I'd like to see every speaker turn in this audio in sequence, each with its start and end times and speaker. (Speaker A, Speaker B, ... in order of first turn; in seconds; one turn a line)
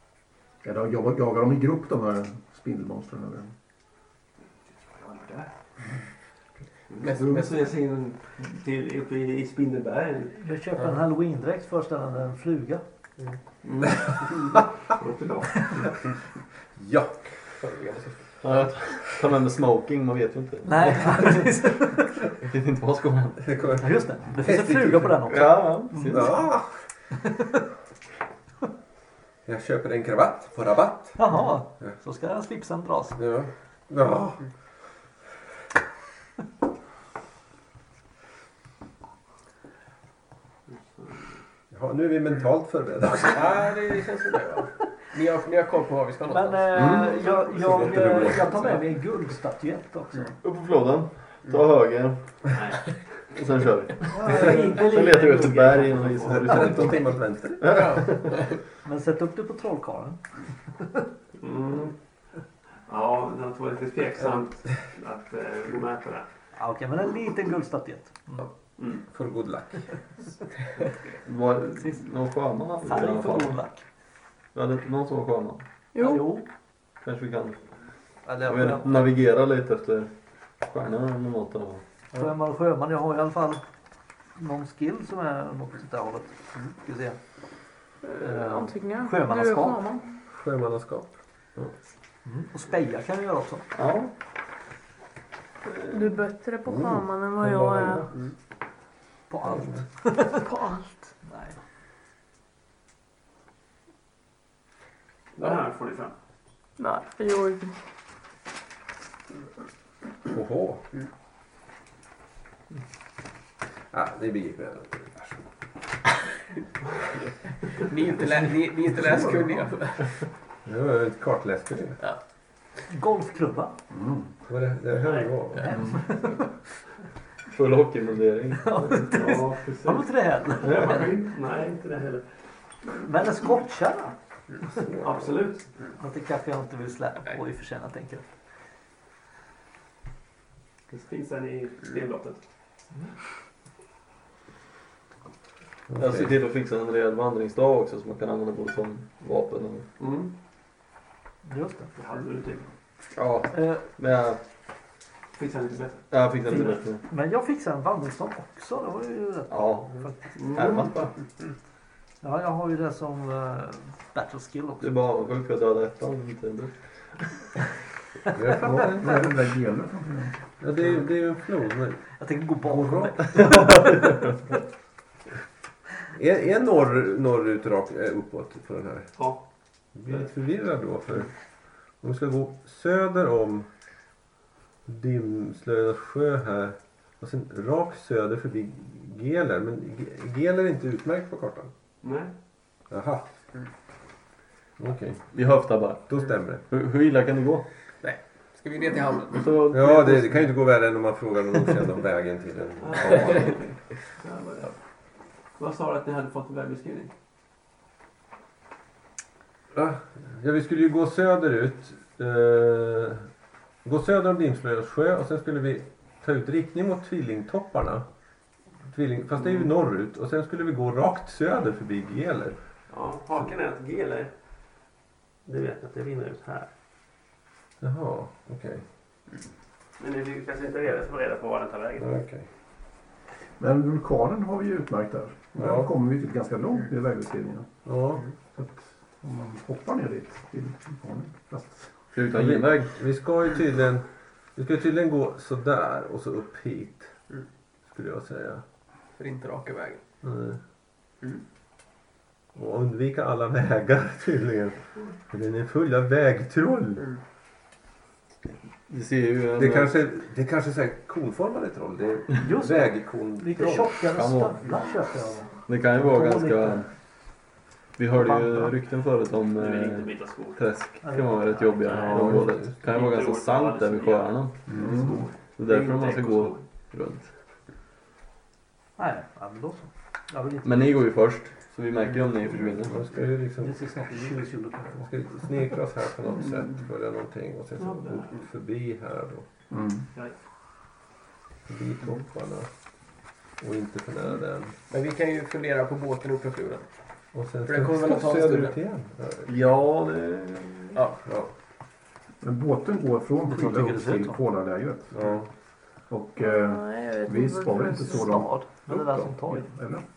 Speaker A: 0.6-3.5
Speaker B: 4.8-5.5
Speaker B: 6.9-10.3
Speaker C: 7.0-7.7
Speaker D: 10.3-12.8
Speaker B: 13.6-15.9
Speaker E: 16.8-17.4
Speaker C: 17.6-18.2
Speaker F: 18.4-21.5
Speaker D: 20.6-22.1
Speaker F: 22.4-23.5
Speaker E: 23.4-25.3
Speaker D: 23.8-26.1
Speaker F: 25.3-26.4
Speaker E: 25.9-26.8
Speaker E: 29.4-31.2
Speaker D: 31.2-33.2
Speaker E: 33.2-34.4
Speaker B: 40.7-41.4
Speaker E: 41.7-43.5
Speaker C: 43.3-47.8
Speaker D: 46.3-50.3
Speaker E: 46.7-48.5
Speaker F: 50.4-52.2
Speaker B: 52.5-52.8
Speaker F: 53.3-58.3
Speaker D: 54.1-56.7
Speaker B: 54.3-54.6
Speaker B: 56.0-56.6
Speaker E: 56.3-57.9
Speaker C: 57.7-58.4
Speaker D: 58.8-60.2
Speaker B: 61.4-61.9
Speaker B: 62.9-66.3
Speaker D: 66.6-68.5
Speaker E: 69.1-69.9
Speaker F: 71.2-73.7
Speaker D: 72.8-73.8
Speaker F: 74.5-75.6
Speaker G: 75.9-76.3
Speaker D: 76.0-76.4
Speaker F: 77.0-77.6
Speaker D: 78.2-79.0
Speaker F: 78.4-81.8
Speaker D: 82.1-83.6
Speaker D: 84.3-87.2
Speaker G: 88.0-90.0
Speaker D: 88.2-89.8
Speaker E: 90.3-91.7
Speaker D: 92.2-93.7
Speaker F: 93.7-94.1
Speaker G: 95.9-98.1
Speaker E: 96.7-98.0
Speaker D: 99.3-100.4
Speaker G: 100.3-101.1
Speaker D: 101.2-101.5
Speaker B: 105.4-106.1
Speaker G: 106.8-107.8
Speaker E: 110.3-110.8
Speaker E: 113.9-115.4
Speaker C: 117.7-120.2
Speaker E: 120.7-122.0
Speaker D: 122.9-123.8
Speaker A: 123.9-124.3
Speaker E: 124.5-125.7
Speaker B: 125.0-125.3
Speaker D: 125.6-126.5
Speaker A: 125.7-126.0
Speaker F: 127.5-130.0
Speaker D: 128.6-131.1
Speaker B: 129.1-129.7
Speaker F: 130.6-131.1
Speaker B: 130.6-132.2
Speaker D: 132.9-134.2
Speaker E: 134.8-135.2
Speaker B: 135.0-135.6
Speaker D: 136.0-138.2
Speaker B: 140.9-142.4
Speaker E: 145.9-146.3
Speaker F: 145.9-149.8
Speaker B: 150.0-150.3
Speaker D: 151.4-151.9
Speaker B: 151.9-152.7
Speaker F: 153.2-154.4
Speaker D: 153.5-153.8
Speaker B: 155.3-156.8
Speaker F: 156.1-157.0
Speaker D: 156.6-160.3
Speaker F: 159.5-161.1
Speaker B: 160.4-160.9
Speaker D: 162.2-164.9
Speaker F: 164.8-166.7
Speaker E: 168.3-169.3
Speaker A: 168.8-170.4
Speaker E: 170.6-173.4
Speaker D: 172.2-174.2
Speaker E: 176.1-179.2
Speaker E: 179.9-181.3
Speaker E: 182.0-183.7
Speaker E: 184.8-191.7
Speaker B: 192.0-192.3
Speaker E: 192.9-193.2
Speaker E: 194.8-195.3
Speaker F: 195.3-197.6
Speaker E: 196.1-196.6
Speaker C: 198.0-199.5
Speaker F: 199.3-200.5
Speaker E: 199.7-203.6
Speaker B: 202.8-204.7
Speaker B: 205.6-207.1
Speaker E: 209.7-213.3
Speaker E: 213.8-218.1
Speaker E: 218.9-222.6
Speaker B: 222.9-224.3
Speaker B: 225.4-226.7
Speaker E: 227.8-228.8
Speaker B: 230.0-232.1
Speaker E: 232.0-232.4
Speaker A: 233.6-237.7
Speaker E: 235.6-235.9
Speaker E: 237.8-238.2
Speaker A: 238.5-241.9
Speaker F: 242.1-242.9
Speaker E: 242.3-244.0
Speaker E: 244.6-247.1
Speaker E: 247.9-248.6
Speaker C: 249.2-250.0
Speaker E: 252.5-257.1
Speaker F: 258.9-259.9
Speaker E: 259.6-263.9
Speaker D: 262.4-266.9
Speaker F: 264.1-264.6
Speaker F: 265.7-266.9
Speaker F: 268.0-274.7
Speaker D: 268.1-268.7
Speaker B: 269.6-270.6
Speaker D: 271.0-272.1
Speaker B: 271.9-276.6
Speaker E: 272.1-272.7
Speaker A: 274.7-275.2
Speaker F: 275.6-277.3
Speaker D: 279.0-280.9
Speaker F: 280.6-283.1
Speaker E: 282.9-283.9
Speaker D: 283.6-285.1
Speaker E: 285.0-289.4
Speaker B: 287.8-288.4
Speaker A: 289.7-290.1
Speaker E: 291.7-292.7
Speaker E: 293.6-294.7
Speaker C: 294.9-296.9
Speaker E: 297.3-299.5
Speaker C: 297.6-298.7
Speaker F: 299.4-301.0
Speaker C: 300.9-301.2
Speaker E: 301.2-301.5
Speaker A: 302.4-305.2
Speaker D: 303.5-304.4
Speaker E: 305.1-305.5
Speaker A: 306.1-310.0
Speaker G: 306.4-308.4
Speaker D: 308.1-309.7